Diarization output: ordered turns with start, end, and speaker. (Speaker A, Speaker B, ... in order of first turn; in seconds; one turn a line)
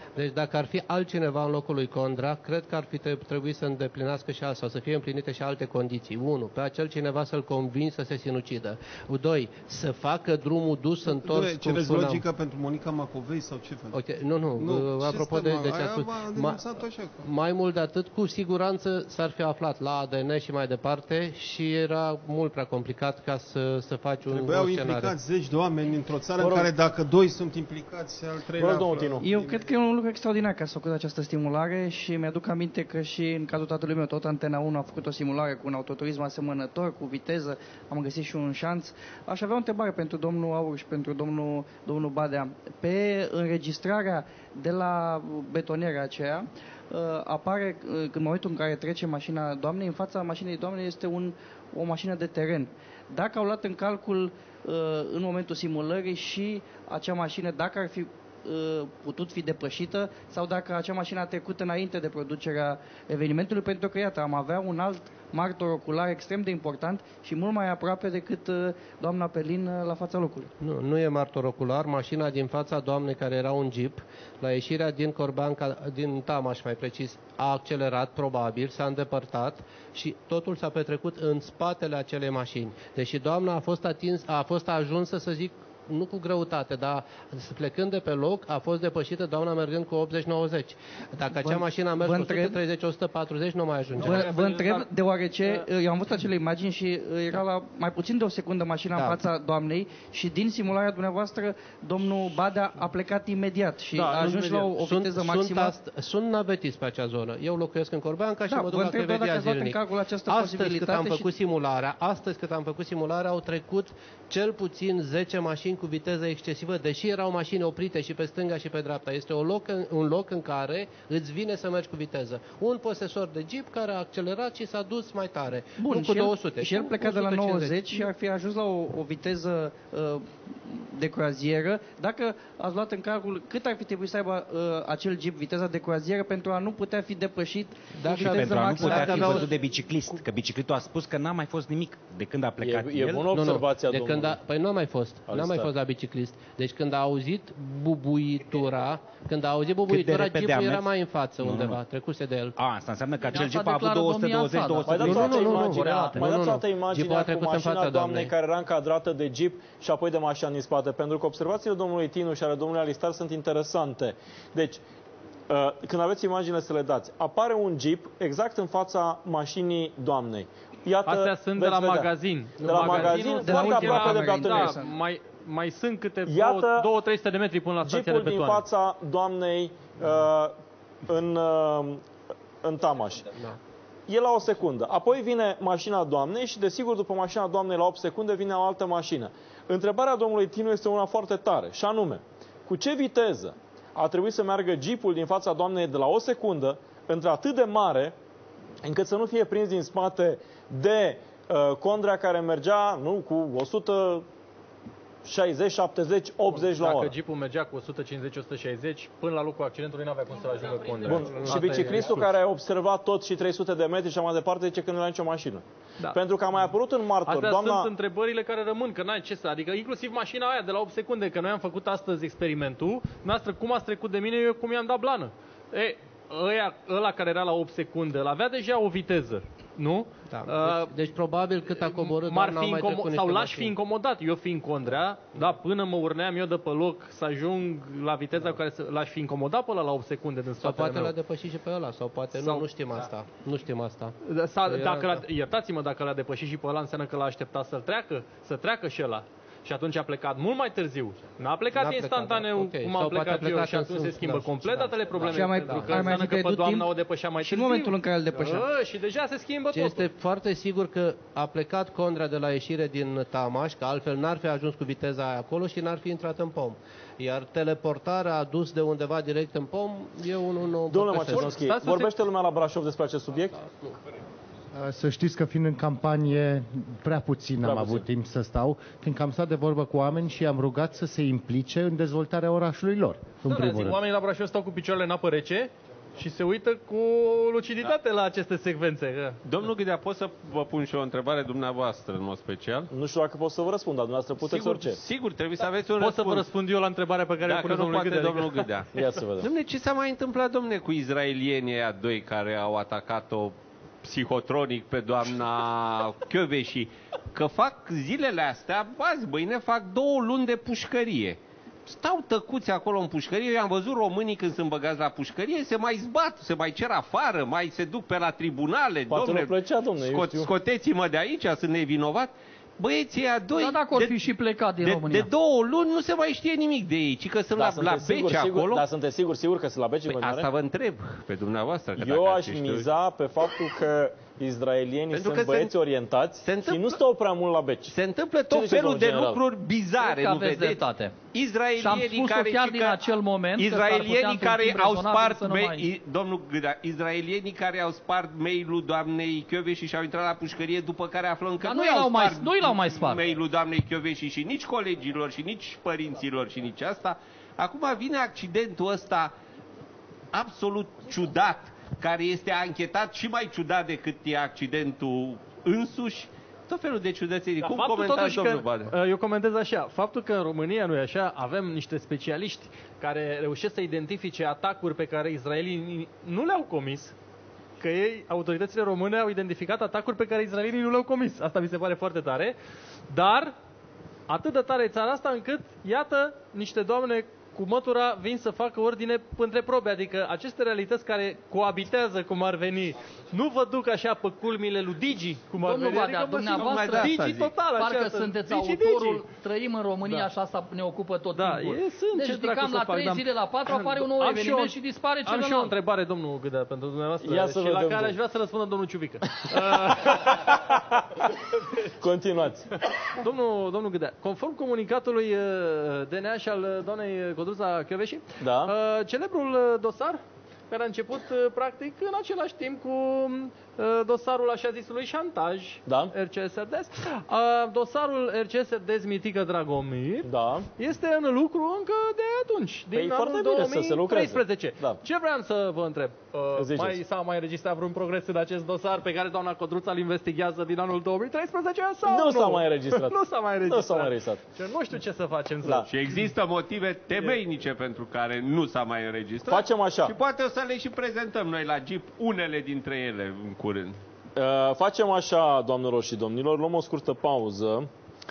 Speaker A: 0.1-12.2
Speaker B: 11.1-14.0
Speaker A: 13.9-16.6
Speaker B: 14.6-17.2
Speaker A: 17.2-25.1
Speaker B: 24.3-29.7
Speaker C: 26.4-26.7
Speaker C: 28.6-29.3
Speaker D: 29.2-70.5
Speaker A: 70.6-94.3
Speaker D: 91.3-92.6
Speaker E: 94.0-94.8
Speaker D: 94.0-105.8
Speaker E: 104.0-104.7
Speaker A: 104.3-128.1
Speaker D: 108.5-111.3
Speaker D: 125.8-139.6
Speaker F: 138.0-143.3
Speaker A: 138.0-139.5
Speaker C: 142.6-144.4
Speaker A: 143.3-152.6
Speaker C: 145.3-145.7
Speaker F: 149.9-150.9
Speaker F: 151.4-151.8
Speaker F: 152.6-155.7
Speaker G: 153.3-156.3
Speaker C: 154.8-164.8
Speaker A: 155.0-158.3
Speaker C: 165.5-174.8
Speaker E: 171.1-178.6
Speaker D: 172.6-174.9
Speaker C: 176.2-176.9
Speaker C: 177.8-182.0
Speaker C: 182.6-183.3
Speaker C: 184.1-198.2
Speaker C: 198.8-204.3
Speaker C: 205.2-207.1
Speaker E: 206.5-212.3
Speaker C: 211.1-217.9
Speaker A: 211.1-212.1
Speaker E: 217.2-230.9
Speaker A: 230.3-233.8
Speaker E: 231.8-241.1
Speaker A: 240.6-245.2
Speaker E: 242.3-242.6
Speaker E: 244.2-260.1
Speaker A: 251.7-256.2
Speaker D: 255.3-258.6
Speaker A: 259.7-271.6
Speaker C: 270.9-273.6
Speaker E: 271.3-272.1
Speaker H: 274.7-284.0
Speaker C: 277.6-278.1
Speaker E: 283.4-289.4
Speaker I: 289.4-292.9
Speaker C: 292.9-295.0
Speaker I: 294.4-296.5
Speaker E: 296.0-298.7
Speaker I: 297.4-328.9
Speaker C: 298.9-299.5
Speaker C: 319.1-320.5
Speaker G: 323.5-325.3
Speaker C: 327.6-330.5
Speaker I: 330.1-332.9
Speaker C: 332.0-337.9
Speaker I: 335.1-335.7
Speaker I: 336.4-337.0
Speaker I: 337.9-343.0
Speaker C: 338.5-339.4
Speaker G: 340.0-341.1
Speaker G: 341.8-345.9
Speaker I: 343.6-359.3
Speaker G: 351.6-353.2
Speaker I: 360.3-368.9
Speaker E: 367.6-377.1
Speaker E: 377.8-382.6
Speaker E: 383.1-383.6
Speaker E: 384.3-399.2
Speaker G: 395.6-405.8
Speaker I: 396.4-397.6
Speaker E: 400.0-400.3
Speaker E: 401.3-410.6
Speaker C: 407.2-408.2
Speaker C: 409.4-411.0
Speaker C: 412.0-412.7
Speaker E: 413.2-446.3
Speaker C: 418.4-418.7
Speaker C: 425.9-426.1
Speaker C: 430.2-430.7
Speaker C: 432.9-435.0
Speaker C: 436.6-437.0
Speaker C: 442.1-444.4
Speaker C: 445.6-445.9
Speaker I: 445.9-454.0
Speaker E: 447.1-447.4
Speaker C: 449.5-450.1
Speaker C: 454.4-457.9